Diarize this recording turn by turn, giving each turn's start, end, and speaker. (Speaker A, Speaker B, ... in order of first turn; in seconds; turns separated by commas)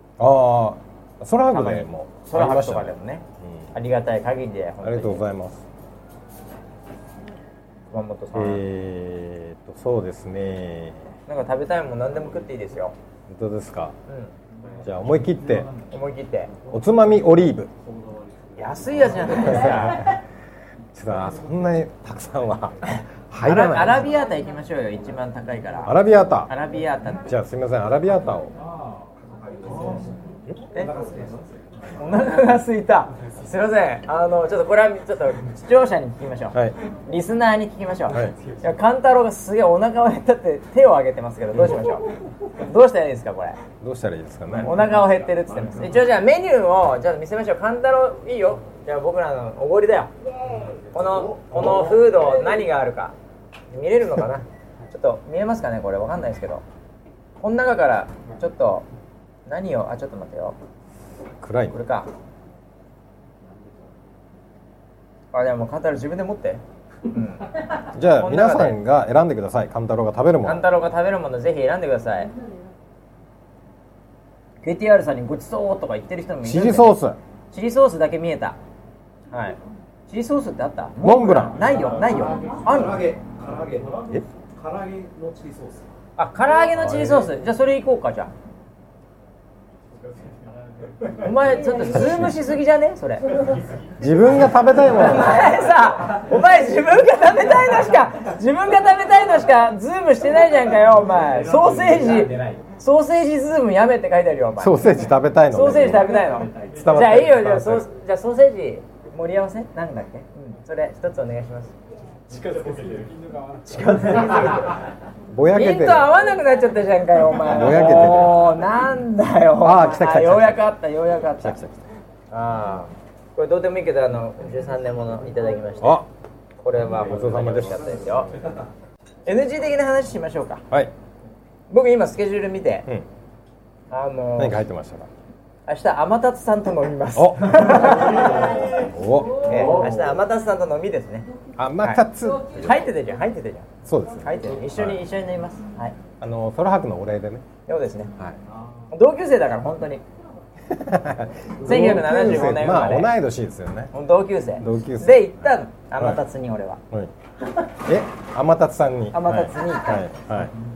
Speaker A: 0.2-3.7, Speaker B: 1.5-5.2, Speaker A: 4.8-5.6, Speaker B: 7.9-8.6, Speaker A: 8.3-11.1, Speaker B: 11.3-12.9, Speaker A: 13.3-13.9, Speaker B: 14.1-14.3, Speaker A: 14.8-15.7, Speaker B: 15.9-16.5, Speaker A: 16.7-17.7, Speaker B: 18.6-20.2, Speaker A: 19.4-20.2, Speaker A: 20.9-24.1, Speaker B: 22.8-27.2, Speaker A: 25.8-26.5, Speaker A: 27.2-28.5, Speaker C: 29.4-30.1, Speaker C: 30.8-31.5, Speaker B: 32.0-42.1, Speaker B: 42.6-43.6, Speaker A: 43.8-44.9, Speaker B: 44.6-50.1, Speaker B: 50.6-53.1, Speaker B: 53.7-56.6, Speaker B: 57.4-58.9, Speaker B: 59.5-60.6, Speaker A: 61.4-61.7, Speaker B: 61.7-62.1, Speaker B: 65.3-67.5, Speaker A: 67.9-70.7, Speaker B: 68.2-68.8, Speaker B: 70.4-72.3, Speaker B: 74.6-77.0, Speaker A: 76.4-77.2, Speaker B: 77.5-78.6, Speaker B: 79.3-83.0, Speaker A: 81.0-81.6, Speaker C: 81.8-85.9, Speaker B: 86.2-88.3, Speaker A: 86.7-87.3, Speaker C: 90.0-91.1, Speaker B: 91.2-93.4, Speaker A: 94.0-95.5, Speaker B: 94.9-104.9, Speaker C: 101.9-102.6, Speaker A: 104.6-107.8, Speaker B: 105.5-111.7, Speaker C: 112.3-114.6, Speaker B: 113.7-114.8, Speaker A: 115.3-116.1, Speaker B: 115.5-121.6, Speaker A: 117.5-118.4, Speaker A: 119.6-120.7, Speaker A: 121.4-121.8, Speaker B: 122.3-126.0, Speaker A: 125.8-126.1, Speaker B: 126.6-128.3, Speaker A: 127.0-127.8, Speaker B: 129.2-130.6, Speaker B: 131.7-132.9, Speaker B: 133.9-134.6, Speaker A: 134.4-135.1, Speaker B: 135.7-138.7, Speaker A: 137.1-138.0, Speaker A: 138.8-139.7, Speaker B: 139.4-141.3, Speaker A: 141.6-142.9, Speaker B: 141.8-143.7, Speaker A: 143.8-145.0, Speaker B: 144.2-145.9, Speaker A: 146.2-147.4, Speaker B: 147.7-148.1, Speaker B: 148.9-150.0, Speaker A: 150.7-153.9, Speaker B: 151.6-153.1, Speaker B: 153.9-156.8, Speaker A: 154.6-155.3, Speaker A: 157.8-160.5, Speaker B: 159.1-160.0